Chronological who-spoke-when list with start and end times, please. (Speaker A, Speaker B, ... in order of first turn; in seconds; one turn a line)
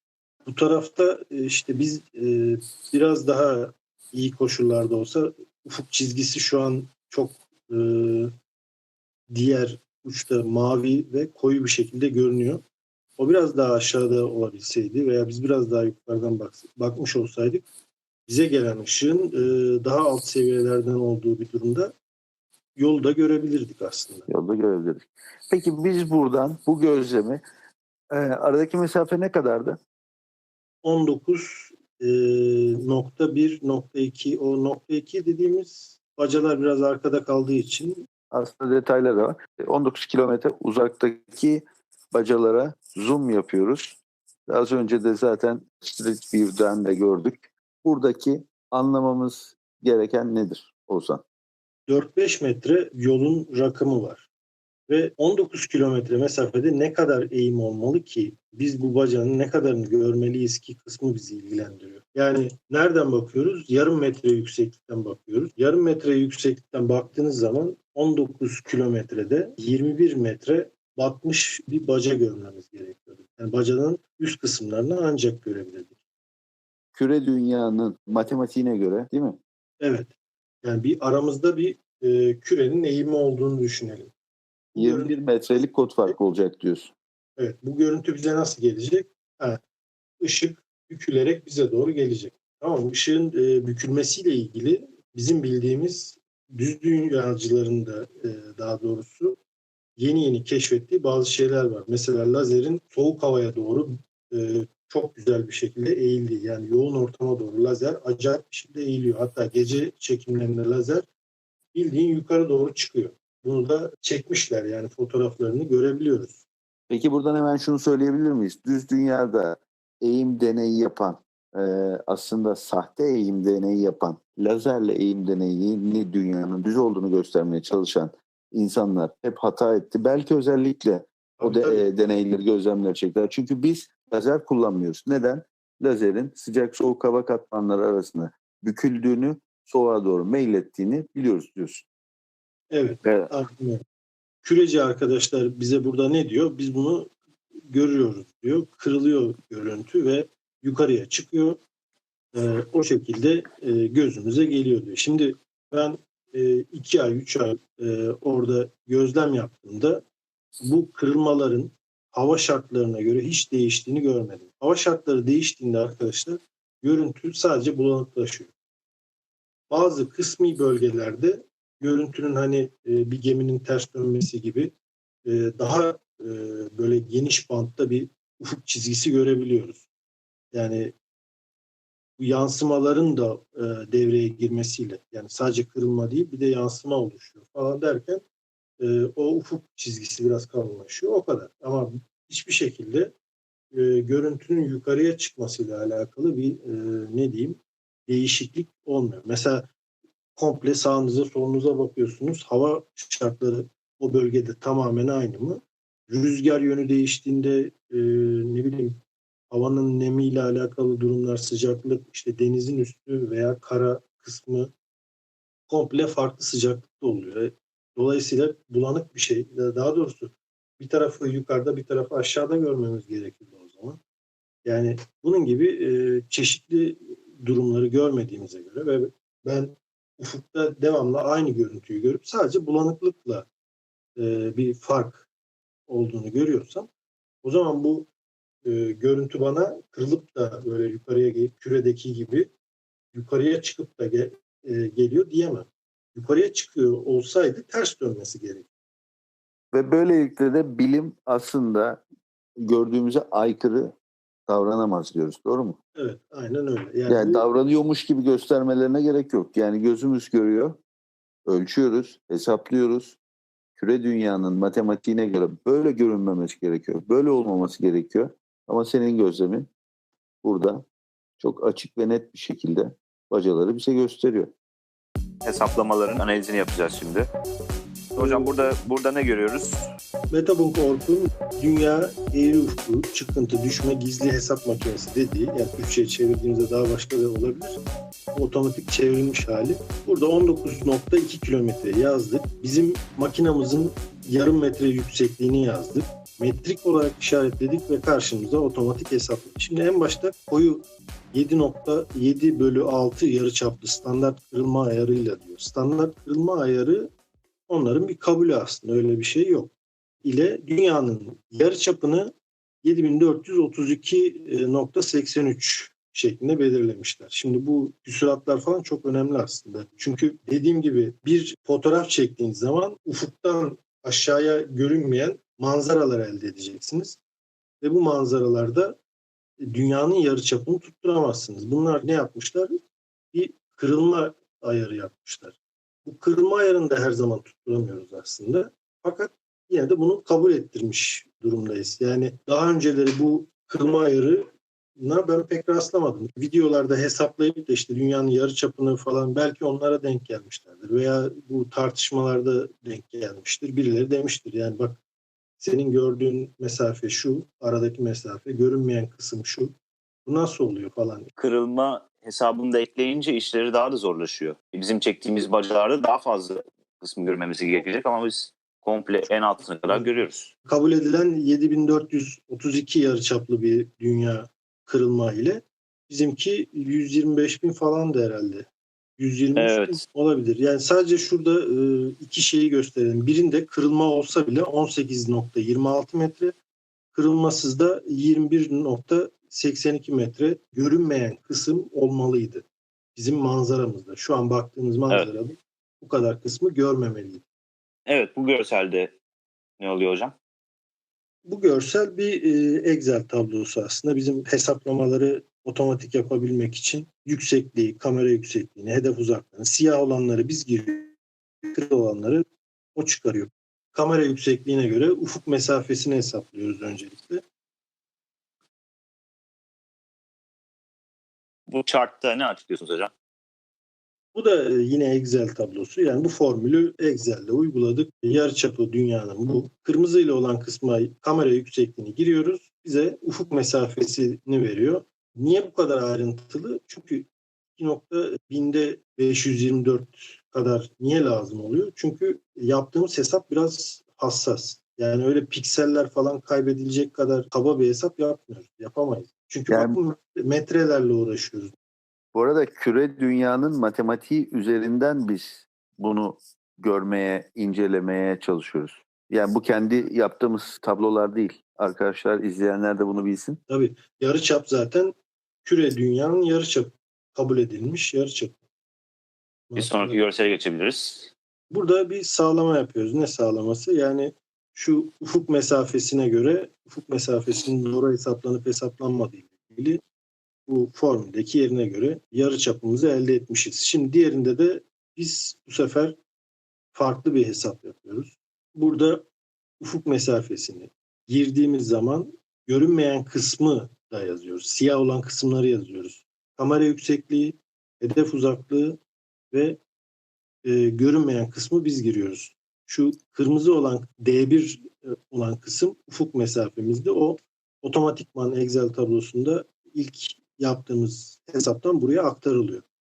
Speaker A: 0.4-8.3
Speaker A: 9.3-12.6
Speaker A: 13.2-17.7
Speaker A: 18.3-21.9
Speaker A: 22.8-24.3
Speaker B: 24.3-27.4
Speaker B: 28.1-29.8
Speaker A: 30.8-38.0
Speaker B: 38.3-51.2
Speaker A: 51.9-54.2
Speaker A: 54.9-75.9
Speaker B: 76.9-79.4
Speaker A: 79.8-80.1
Speaker A: 80.6-84.1
Speaker A: 84.7-85.1
Speaker B: 84.8-86.9
Speaker A: 87.4-89.6
Speaker A: 90.2-99.4
Speaker A: 100.0-111.0
Speaker A: 111.7-116.4
Speaker B: 116.9-141.8
Speaker A: 131.4-131.8
Speaker A: 142.7-143.8
Speaker A: 144.4-147.1
Speaker A: 147.7-151.6
Speaker A: 152.3-160.0
Speaker A: 160.6-168.5
Speaker A: 169.7-174.7
Speaker A: 175.2-179.8
Speaker A: 180.5-180.9
Speaker A: 182.2-188.2
Speaker A: 188.8-193.1
Speaker A: 193.7-199.7
Speaker A: 200.3-209.0
Speaker A: 209.5-214.7
Speaker A: 215.7-224.0
Speaker A: 224.6-233.4
Speaker A: 234.2-235.2
Speaker A: 235.9-236.9
Speaker A: 237.4-238.1
Speaker A: 238.6-242.5
Speaker A: 243.1-248.7
Speaker B: 249.7-252.0
Speaker B: 252.6-253.9
Speaker B: 254.5-255.8
Speaker A: 255.9-257.4
Speaker B: 257.1-260.8
Speaker B: 261.5-263.2
Speaker B: 263.8-269.7
Speaker B: 270.4-270.8
Speaker B: 271.4-274.5
Speaker C: 275.4-277.3
Speaker A: 278.1-278.5
Speaker C: 278.1-279.9
Speaker A: 280.3-287.8
Speaker A: 288.3-307.1
Speaker A: 307.7-309.7
Speaker A: 310.2-312.3
Speaker A: 312.8-327.2
Speaker A: 327.8-329.0
Speaker A: 329.6-332.8
Speaker A: 333.3-355.0
Speaker A: 355.6-359.7
Speaker A: 360.2-361.3
Speaker C: 361.4-370.5
Speaker A: 370.6-378.7
Speaker A: 379.2-386.5
Speaker C: 379.6-380.0
Speaker A: 387.1-392.6
Speaker A: 393.1-397.4
Speaker C: 398.1-399.1
Speaker C: 399.8-400.3
Speaker A: 401.4-411.1
Speaker A: 411.7-412.4
Speaker A: 412.9-417.4
Speaker C: 421.7-423.1
Speaker A: 424.3-451.7
Speaker B: 449.7-450.0
Speaker B: 452.3-463.6
Speaker A: 463.7-468.6
Speaker A: 469.7-470.2
Speaker C: 469.8-471.3
Speaker A: 471.7-480.0
Speaker A: 480.7-486.1
Speaker A: 486.9-489.2
Speaker A: 489.8-499.0
Speaker A: 499.5-499.8
Speaker A: 500.6-512.8